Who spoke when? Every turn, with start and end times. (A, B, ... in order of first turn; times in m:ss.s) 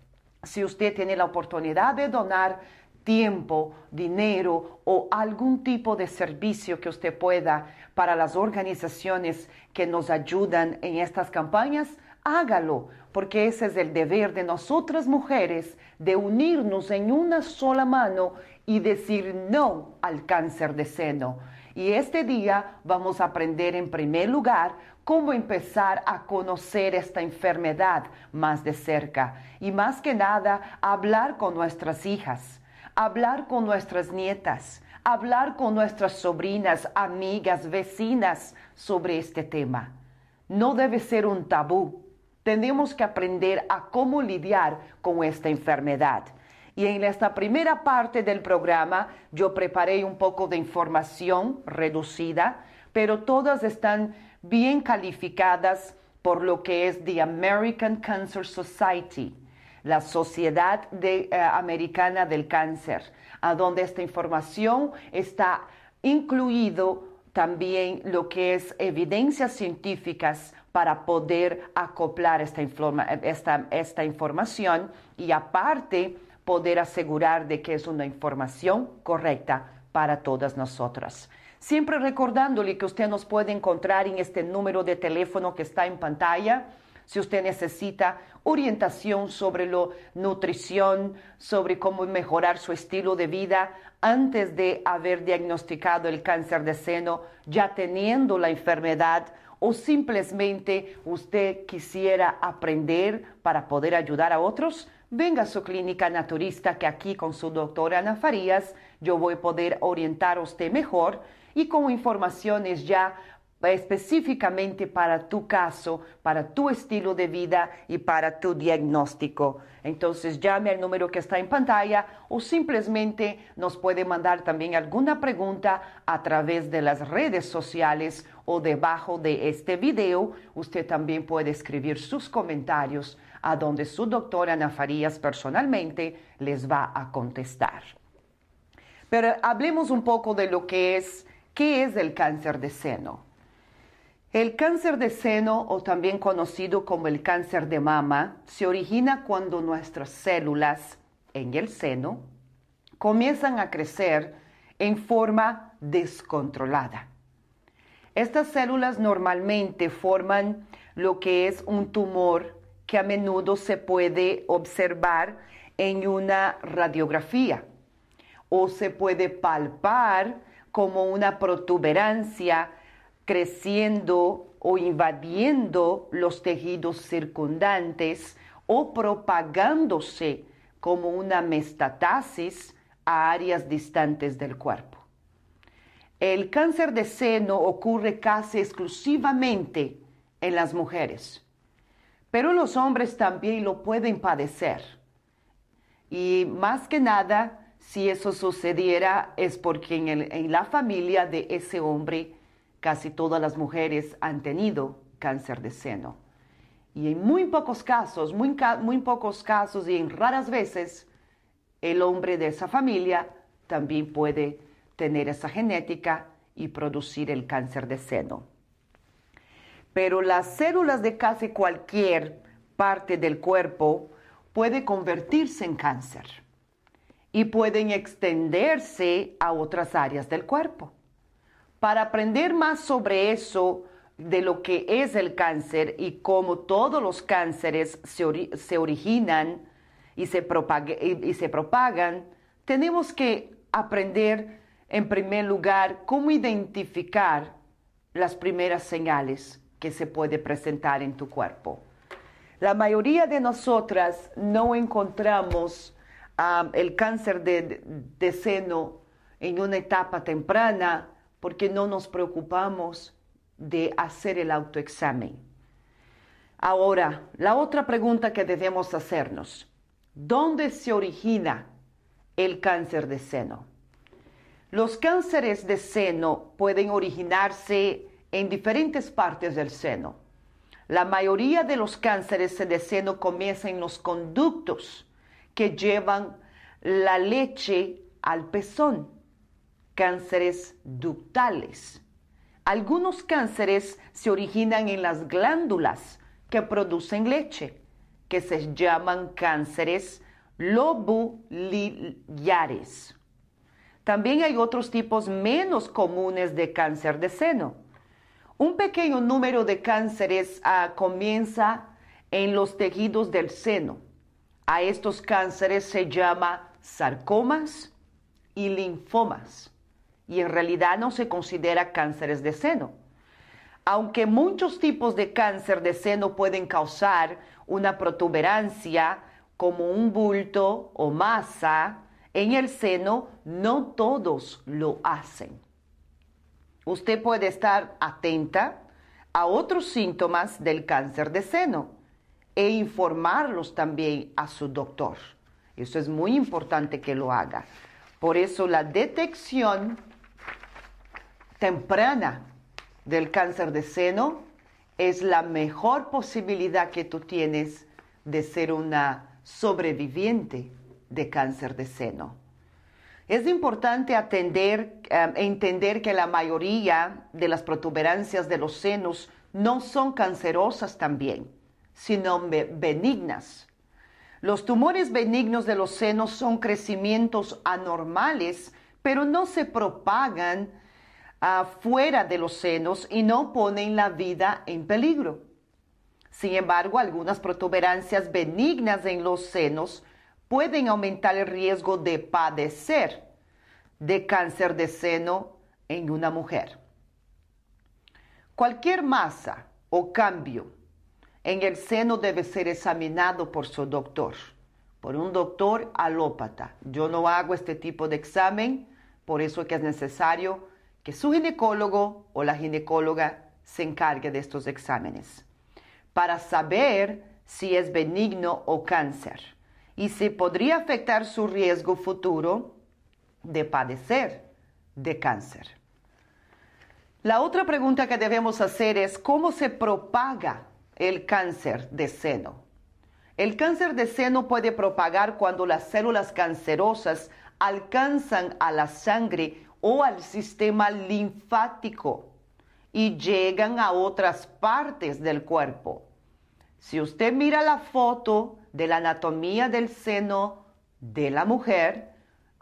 0:00.4-0:39.9 A
0:40.5-2:17.9 A
2:19.1-2:23.2 A
2:24.3-2:32.2 A
2:33.0-2:37.1 A
2:38.1-2:47.6 A
2:48.5-2:52.7 A
2:53.2-3:05.0 A
3:06.2-3:11.4 A
3:12.3-3:15.0 A
3:16.1-3:26.2 A
3:26.9-3:31.1 A
3:31.8-3:38.5 A
3:39.9-3:46.4 A
3:47.3-3:50.9 A
3:51.8-3:59.6 A
4:00.2-4:07.5 A
4:08.1-4:11.8 A
4:12.6-4:25.4 A
4:26.6-4:31.7 A
4:32.4-4:33.6 A
4:34.7-4:40.2 A
4:40.9-4:49.1 A
4:49.9-4:52.0 A
4:52.6-4:57.8 A
4:58.3-5:03.1 A
5:04.0-5:07.8 A
5:08.6-5:14.0 A
5:14.7-5:17.9 A
5:18.5-5:19.7 A
5:20.3-5:23.0 A
5:23.8-5:35.6 A
5:36.8-5:38.8 A
5:39.3-5:42.0 A
5:42.5-5:47.7 A
5:48.2-5:50.0 A
5:51.6-5:52.4 A
5:53.0-5:54.4 A
5:55.0-6:02.4 A
6:03.3-6:13.7 A
6:14.4-6:20.7 A
6:21.4-6:25.4 A
6:26.3-6:33.2 A
6:34.0-6:36.8 A
6:38.6-6:40.7 A
6:41.4-6:55.4 A
6:56.1-7:02.7 A
7:03.4-7:04.4 A
7:05.0-7:05.7 A
7:07.2-7:12.6 A
7:13.4-7:22.3 A
7:22.9-7:26.1 A
7:26.8-7:32.1 A